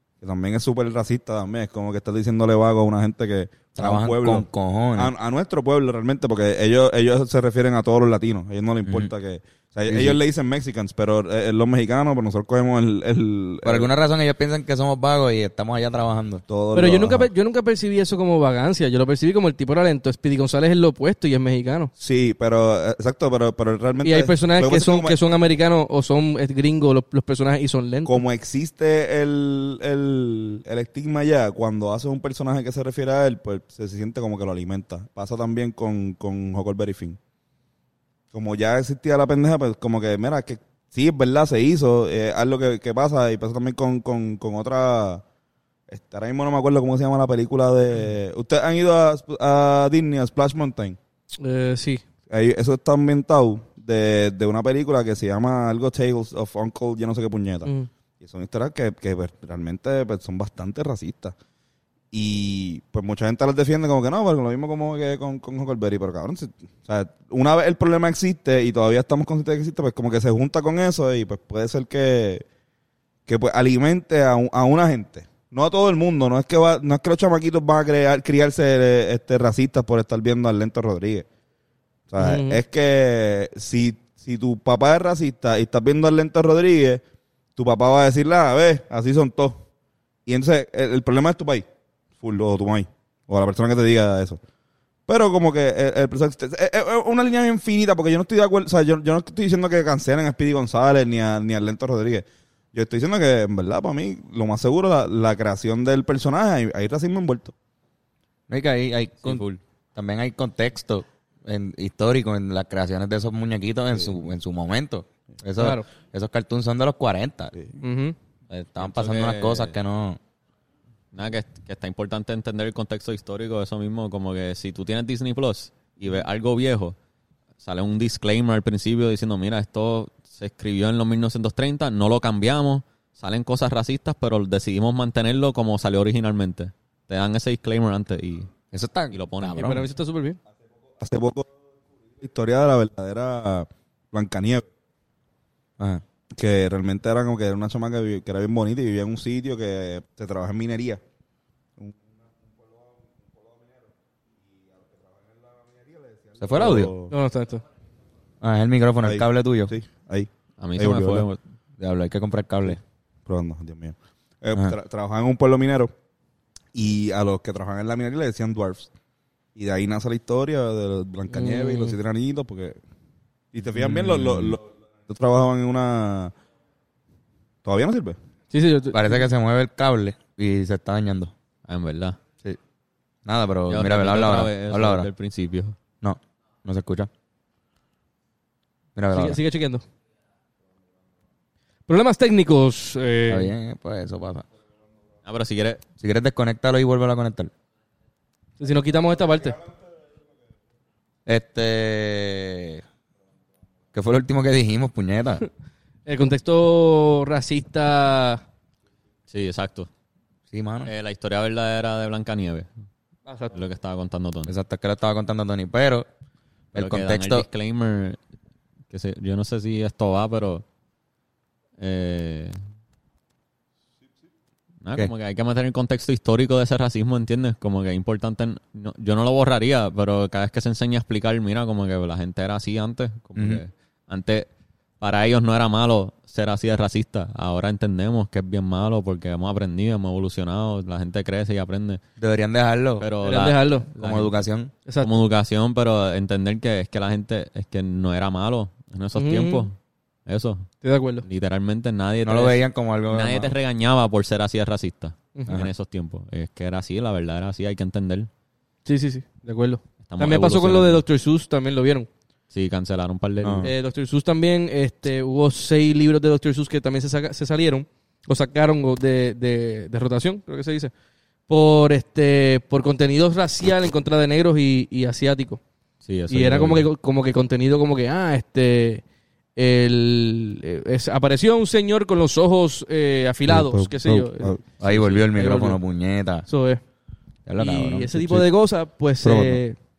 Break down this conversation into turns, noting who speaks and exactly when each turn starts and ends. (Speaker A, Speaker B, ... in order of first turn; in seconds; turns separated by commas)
Speaker A: 0.2-13.9, Speaker B: 3.8-5.1, Speaker B: 8.8-9.1, Speaker B: 9.9-10.2, Speaker B: 13.6-16.4, Speaker A: 16.5-17.3, Speaker C: 16.7-21.9, Speaker A: 22.0-25.2, Speaker C: 24.0-28.2, Speaker A: 28.1-37.2, Speaker A: 38.3-45.2, Speaker A: 45.9-51.0, Speaker C: 51.4-52.0, Speaker A: 52.3-61.4, Speaker A: 62.1-72.5, Speaker A: 73.3-81.3, Speaker A: 82.1-87.0, Speaker C: 82.2-82.6, Speaker A: 87.6-89.6, Speaker A: 90.3-91.7, Speaker A: 92.2-94.4, Speaker A: 95.1-107.5, Speaker B: 108.5-117.5, Speaker C: 115.6-115.9, Speaker C: 117.8-118.2, Speaker B: 118.5-120.2, Speaker D: 118.8-119.8, Speaker D: 121.1-127.0, Speaker D: 127.6-138.5, Speaker B: 138.7-139.8, Speaker D: 139.1-139.8, Speaker C: 139.6-140.4, Speaker A: 141.0-141.5, Speaker A: 142.2-144.7, Speaker B: 145.8-146.0, Speaker A: 146.4-151.0, Speaker A: 151.8-157.1, Speaker B: 156.4-156.9, Speaker C: 157.1-157.6, Speaker B: 158.4-159.7, Speaker A: 159.0-161.3, Speaker D: 160.6-161.4, Speaker B: 161.8-162.8, Speaker A: 163.3-165.9, Speaker A: 166.8-168.9, Speaker A: 169.6-172.8, Speaker C: 171.3-172.0, Speaker A: 173.5-176.3, Speaker B: 174.1-174.5, Speaker A: 177.7-178.2, Speaker C: 178.5-179.2, Speaker B: 178.9-181.3, Speaker D: 181.7-182.2, Speaker B: 183.3-185.1, Speaker D: 183.7-185.8, Speaker B: 186.0-187.1, Speaker B: 189.0-189.4, Speaker C: 189.1-189.8, Speaker C: 191.9-193.5, Speaker B: 193.3-194.5, Speaker D: 195.2-195.8, Speaker B: 196.0-197.5, Speaker C: 198.6-199.6, Speaker B: 201.3-202.8, Speaker B: 203.9-205.5, Speaker C: 206.1-208.4, Speaker D: 209.3-209.9, Speaker B: 210.5-210.9, Speaker D: 210.9-212.7, Speaker C: 213.3-213.5, Speaker D: 213.5-214.5, Speaker B: 214.5-216.1, Speaker B: 216.7-217.5, Speaker D: 216.8-218.2, Speaker D: 218.9-220.6, Speaker D: 221.8-222.6, Speaker D: 224.8-234.5, Speaker B: 233.4-233.6, Speaker D: 235.0-242.0, Speaker B: 242.2-243.1, Speaker D: 243.0-244.4, Speaker C: 243.2-243.9, Speaker B: 243.9-244.7, Speaker D: 245.0-249.8, Speaker C: 249.2-249.7, Speaker D: 250.3-250.7, Speaker C: 250.8-251.2, Speaker D: 251.2-258.3, Speaker B: 252.2-253.6, Speaker C: 258.9-262.1, Speaker D: 260.1-261.0, Speaker D: 262.5-263.7, Speaker B: 263.4-263.7, Speaker C: 263.6-270.9, Speaker C: 271.5-275.6, Speaker D: 276.0-276.9, Speaker C: 276.3-279.0, Speaker C: 279.6-284.6, Speaker A: 283.5-284.6, Speaker B: 284.8-286.5, Speaker D: 284.8-285.3, Speaker C: 285.3-285.8, Speaker C: 286.5-286.8, Speaker B: 287.5-288.5, Speaker C: 287.6-289.8, Speaker B: 289.2-289.6